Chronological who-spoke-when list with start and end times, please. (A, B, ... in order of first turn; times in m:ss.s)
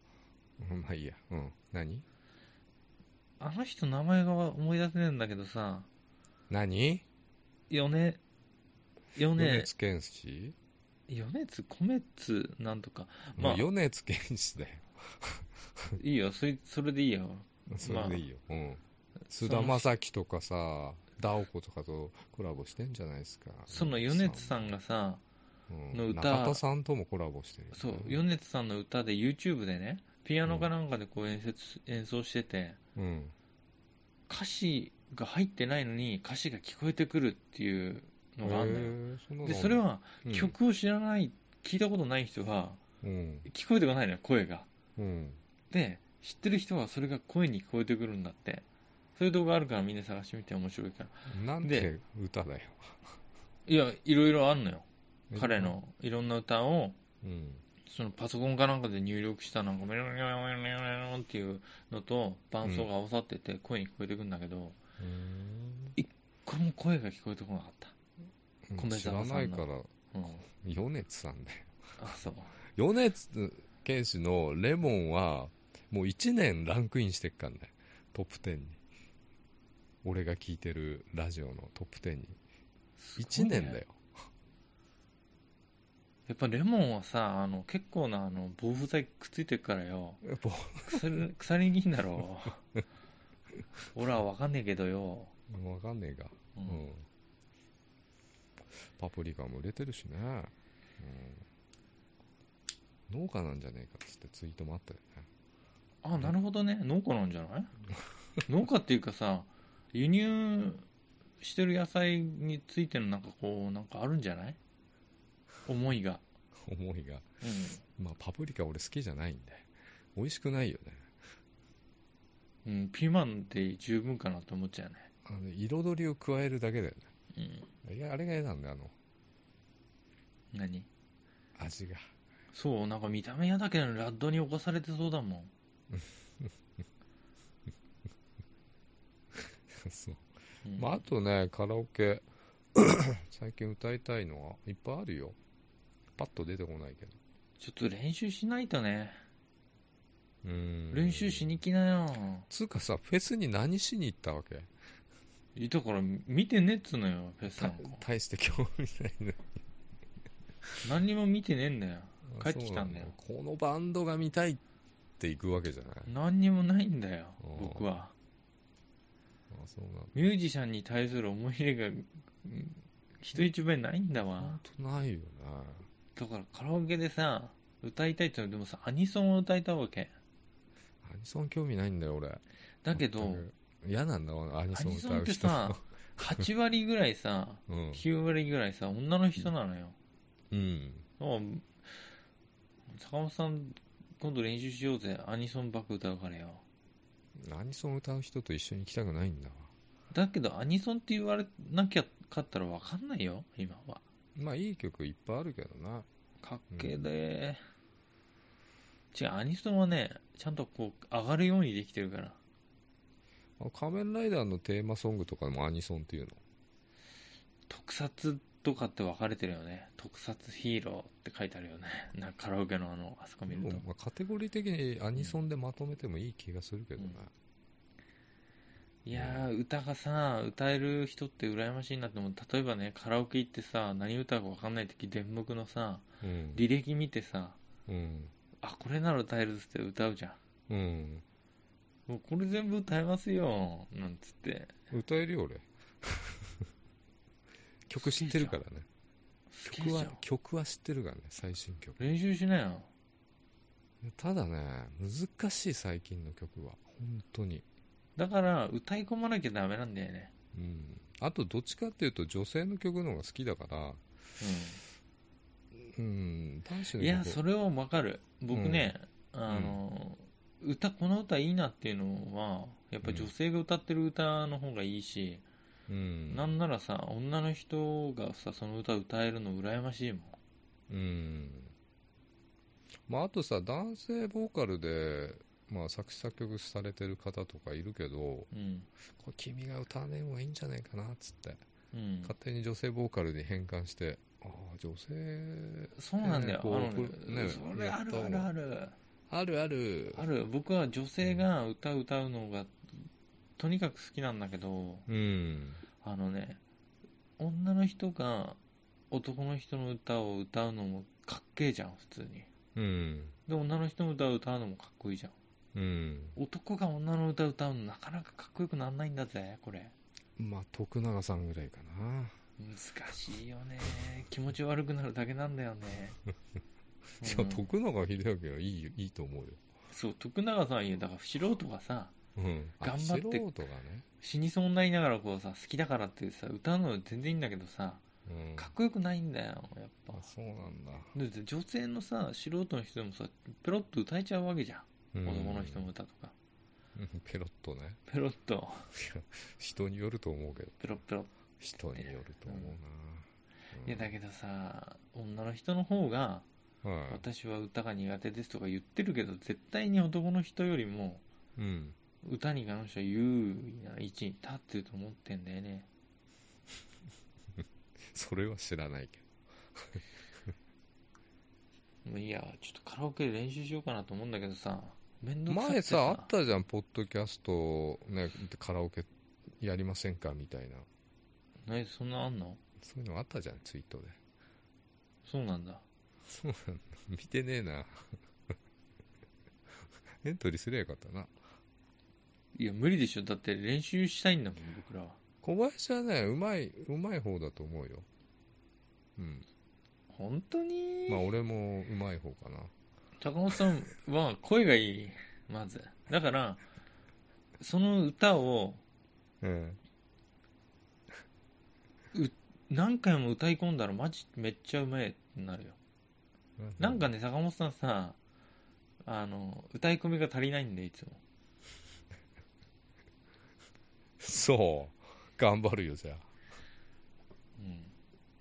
0:00.6-0:02.0 A
0:03.4-0:05.9 B
0:06.5-0:07.0 A
0:07.7-0:08.2 B
0:09.1-0:09.7 B
0:09.3-0:10.6 A
0:11.1-0:13.6 B
0:13.4-0:16.0 A
0:16.0-0:18.2 B
0:17.7-0:24.7 A
0:19.4-0:19.9 B
0:23.7-0:25.2 B
0:25.7-0:28.2 A
0:25.9-0:26.6 B
0:27.7-0:32.8 B
0:30.4-0:30.7 A
0:33.0-0:33.3 A
0:34.3-0:42.8 B
0:38.4-0:40.5 A
0:43.0-0:43.5 A
0:43.4-0:44.7 B
0:45.0-0:45.4 A
0:45.7-0:48.6 B
0:49.2-0:51.9 B
0:51.2-0:53.2 A
0:53.6-0:57.0 B
0:55.3-0:55.8 A
0:57.2-0:57.6 A
0:57.8-1:04.8 B
1:02.6-1:02.9 A
1:05.0-1:05.9 A
1:06.0-1:07.9 B
1:08.7-1:09.9 A
1:08.8-1:10.4 B
1:10.4-1:11.8 A
1:12.0-1:12.5 B
1:12.7-1:18.8 A
1:20.0-1:22.4 A
1:23.0-1:23.8 B
1:23.2-1:24.3 A
1:26.3-1:30.2 B
1:30.2-1:31.2 A
1:30.8-1:32.6 B
1:33.9-1:35.3 B
1:35.5-1:37.0 A
1:36.5-1:36.8 B
1:38.7-1:41.4 A
1:43.1-1:45.3 A
1:46.0-1:47.7 B
1:48.4-1:50.8 B
1:51.4-1:54.6 B
1:55.6-1:56.2 B
1:56.6-1:57.3 A
1:57.4-1:57.8 B
1:58.0-2:01.1 A
2:02.6-2:05.1 B
2:05.2-2:07.1 A
2:07.3-2:07.7 B
2:07.8-2:08.9 A
2:10.5-2:10.9 B
2:11.5-2:12.0 A
2:12.5-2:15.5 B
2:15.9-2:16.5 A
2:19.3-2:25.4 A
2:20.6-2:20.9 B
2:26.2-2:27.2 A
2:27.6-2:29.2 B
2:30.4-2:31.6 A
2:30.9-2:32.5 B
2:32.5-2:34.7 A
2:35.6-2:38.0 B
2:37.5-2:39.6 A
2:40.8-2:43.1 B
2:42.2-2:44.6 A
2:45.2-2:46.1 A
2:46.0-2:48.1 B
2:47.4-2:47.8 A
2:49.5-2:50.3 A
2:50.1-2:54.6 B
2:54.4-2:55.9 A
2:56.1-3:00.1 B
3:01.0-3:02.4 A
3:02.8-3:03.4 B
3:02.9-3:06.5 A
3:04.7-3:10.0 B
3:07.7-3:08.0 A
3:10.5-3:11.0 A
3:11.2-3:12.0 B
3:12.9-3:16.6 B
3:17.4-3:19.7 A
3:20.1-3:24.0 B
3:24.4-3:26.1 A
3:26.4-3:27.6 B
3:26.7-3:27.0 A
3:29.1-3:32.4 B
3:33.6-3:36.4 A
3:37.7-3:43.8 B
3:43.5-3:47.3 A
3:49.0-3:57.6 B
3:49.1-3:49.4 A
3:56.2-3:56.6 A
3:57.9-3:58.3 A
3:58.6-4:00.4 B
4:00.7-4:01.2 A
4:02.1-4:04.7 B
4:04.9-4:06.6 A
4:07.8-4:08.9 A
4:08.0-4:08.6 B
4:09.5-4:10.2 B
4:09.6-4:12.1 A
4:12.0-4:12.9 B
4:14.0-4:17.6 A
4:18.2-4:20.3 B
4:20.5-4:24.0 A
4:24.4-4:24.8 B
4:25.7-4:27.4 A
4:27.0-4:35.4 B
4:28.5-4:28.9 A
4:29.5-4:29.8 A
4:33.0-4:33.3 A
4:35.9-4:36.5 A
4:36.3-4:40.4 B
4:40.9-4:41.7 A
4:43.1-4:48.5 A
4:48.5-4:48.9 B
4:49.1-4:51.6 A
4:51.9-4:52.3 B
4:52.2-4:58.5 A
4:55.9-4:58.9 B
4:59.3-5:00.3 A
5:00.1-5:03.1 B
5:03.6-5:05.0 B
5:05.1-5:05.8 A
5:06.0-5:06.6 B
5:07.4-5:08.6 B
5:09.1-5:12.5 B
5:12.8-5:13.4 A
5:13.5-5:15.3 B
5:15.7-5:16.4 A
5:16.4-5:19.9 B
5:20.4-5:22.4 A
5:22.6-5:26.2 B
5:27.2-5:29.6 A
5:27.2-5:27.7 B
5:29.9-5:32.1 B
5:32.4-5:34.0 A
5:32.8-5:33.4 B
5:34.2-5:38.0 B
5:38.2-5:38.7 A
5:38.6-5:40.3 B
5:40.1-5:41.1 A
5:41.1-5:46.3 B
5:45.1-5:45.9 A
5:46.9-5:48.0 A
5:48.1-5:48.9 B
5:48.9-5:51.0 A
5:50.8-5:52.8 B
5:51.6-5:54.1 A
5:53.8-5:56.5 B
5:56.8-5:57.2 A
5:57.1-6:01.2 B
6:01.6-6:02.0 A
6:02.2-6:05.9 B
6:08.0-6:10.5 A
6:12.0-6:16.3 B
6:15.5-6:20.9 A
6:21.6-6:22.6 B
6:22.8-6:24.2 A
6:25.2-6:25.8 B
6:26.2-6:28.2 A
6:29.8-6:31.3 A
6:32.5-6:35.2 B
6:35.4-6:38.0 A
6:39.2-6:39.4 A
6:40.1-6:41.2 B
6:41.1-6:42.7 A
6:43.2-6:46.6 B
6:47.6-6:48.8 B
6:49.4-6:49.8 A
6:52.1-6:55.8 B
6:56.6-6:57.1 A
6:56.8-6:58.2 B
6:59.0-7:01.2 B
7:04.2-7:06.3 A
7:07.6-7:07.9 B